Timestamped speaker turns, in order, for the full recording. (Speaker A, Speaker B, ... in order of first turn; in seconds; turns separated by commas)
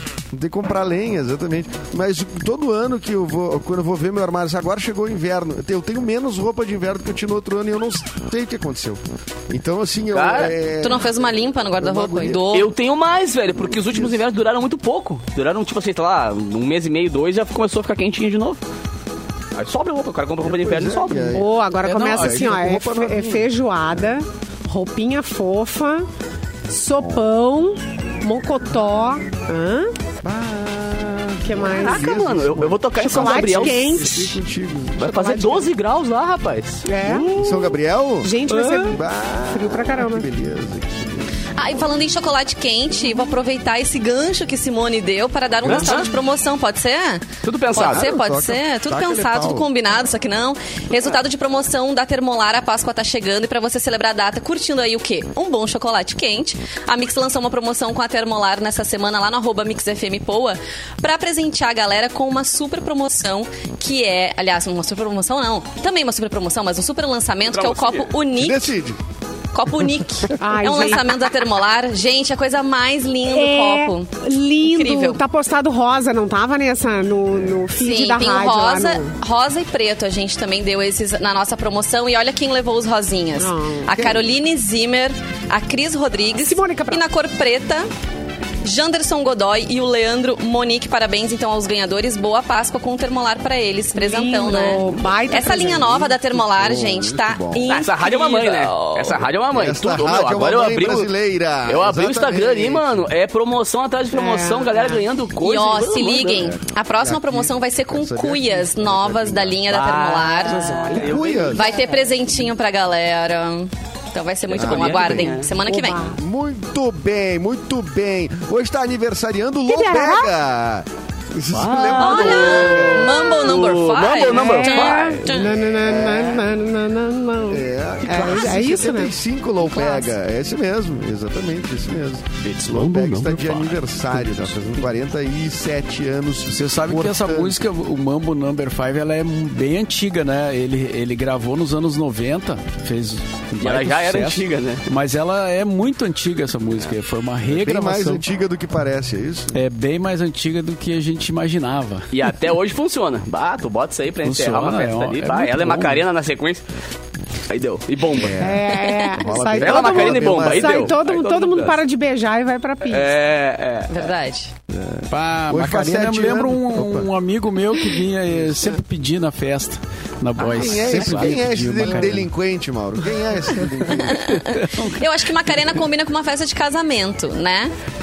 Speaker A: 0.3-12.5, Speaker B: 10.1-10.6, Speaker C: 10.8-12.7, Speaker B: 12.5-18.6, Speaker A: 13.5-14.2, Speaker B: 19.5-21.4, Speaker A: 20.4-21.6, Speaker D: 21.3-26.1, Speaker E: 21.8-22.5, Speaker A: 22.1-23.5, Speaker D: 26.7-29.9, Speaker A: 30.2-35.2, Speaker D: 31.4-32.1, Speaker B: 31.7-34.0, Speaker D: 33.0-34.4, Speaker B: 35.0-37.3, Speaker D: 35.0-35.7, Speaker D: 36.9-40.2, Speaker A: 37.2-41.3, Speaker B: 38.5-38.8, Speaker C: 41.5-68.7, Speaker A: 45.6-46.1, Speaker B: 45.6-46.1, Speaker B: 47.4-48.1, Speaker A: 47.8-49.7, Speaker B: 67.5-68.1, Speaker A: 68.3-69.0, Speaker C: 69.5-74.1, Speaker D: 70.4-71.0, Speaker D: 73.3-79.1, Speaker C: 74.6-75.2, Speaker C: 77.7-87.9, Speaker D: 83.4-84.1, Speaker D: 86.4-87.0, Speaker C: 88.6-99.2, Speaker D: 93.9-96.1, Speaker A: 96.0-97.7, Speaker B: 97.7-101.1, Speaker A: 99.5-103.1, Speaker B: 101.7-106.5, Speaker D: 104.1-105.0, Speaker C: 105.4-110.7, Speaker A: 106.3-109.7, Speaker B: 109.7-111.9, Speaker D: 110.5-111.2, Speaker A: 111.0-111.7, Speaker C: 111.5-116.0, Speaker B: 114.5-115.5, Speaker A: 114.5-123.2, Speaker D: 115.6-116.2, Speaker D: 119.7-120.3, Speaker B: 121.5-125.3, Speaker C: 122.0-125.5, Speaker D: 124.3-129.1, Speaker A: 125.4-126.5, Speaker A: 127.5-137.6, Speaker C: 129.6-130.1, Speaker B: 132.4-133.7, Speaker E: 134.2-134.5, Speaker E: 136.5-148.2, Speaker B: 143.6-144.8, Speaker A: 147.5-149.5, Speaker E: 149.5-152.1, Speaker B: 152.1-156.6, Speaker E: 154.2-156.0, Speaker B: 157.5-158.4, Speaker A: 158.1-160.9, Speaker D: 158.4-163.1, Speaker B: 159.6-161.8, Speaker B: 162.9-164.1, Speaker C: 163.9-164.5, Speaker A: 164.7-167.1, Speaker E: 165.1-172.3, Speaker B: 170.4-171.4, Speaker A: 170.5-174.4, Speaker C: 174.0-177.7, Speaker E: 174.5-175.0